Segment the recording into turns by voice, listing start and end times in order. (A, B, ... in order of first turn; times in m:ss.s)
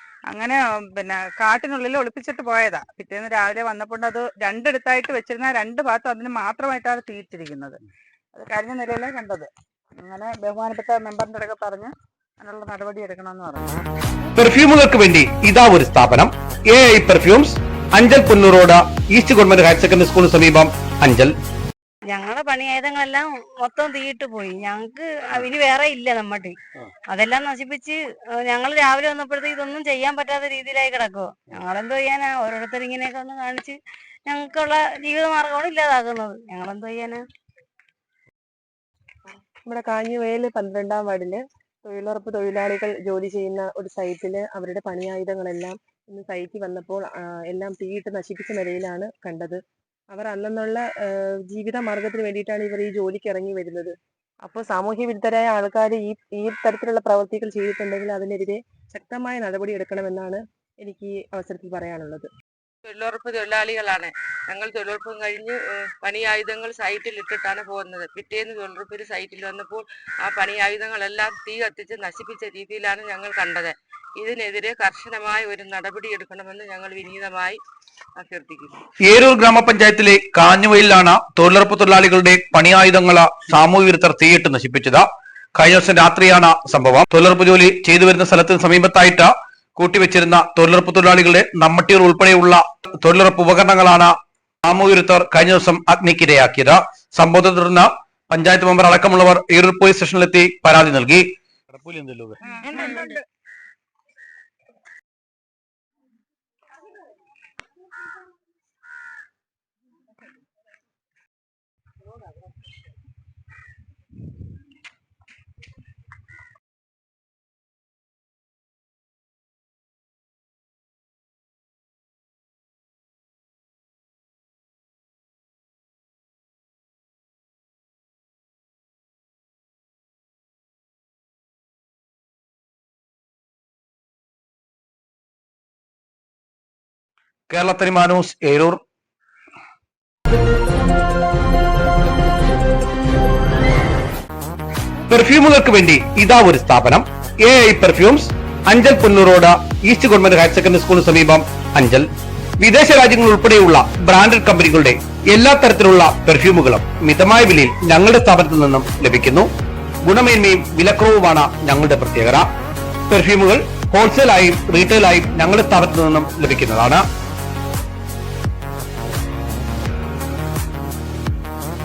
0:00.3-0:07.8 A
0:08.3-0:13.8 A
0:14.4-0:21.3 B
0:22.1-0:26.6 C
0:27.1-0:37.2 C
0:39.7-0:49.6 D
0:50.1-1:02.3 D
1:02.8-1:17.6 E
1:18.2-1:18.8 E
1:19.0-1:42.4 B
1:42.5-1:43.2 A
2:17.5-2:18.8 B
2:25.1-2:32.1 B
2:32.6-2:39.5 B
2:40.1-2:42.5 B
2:43.1-2:47.0 B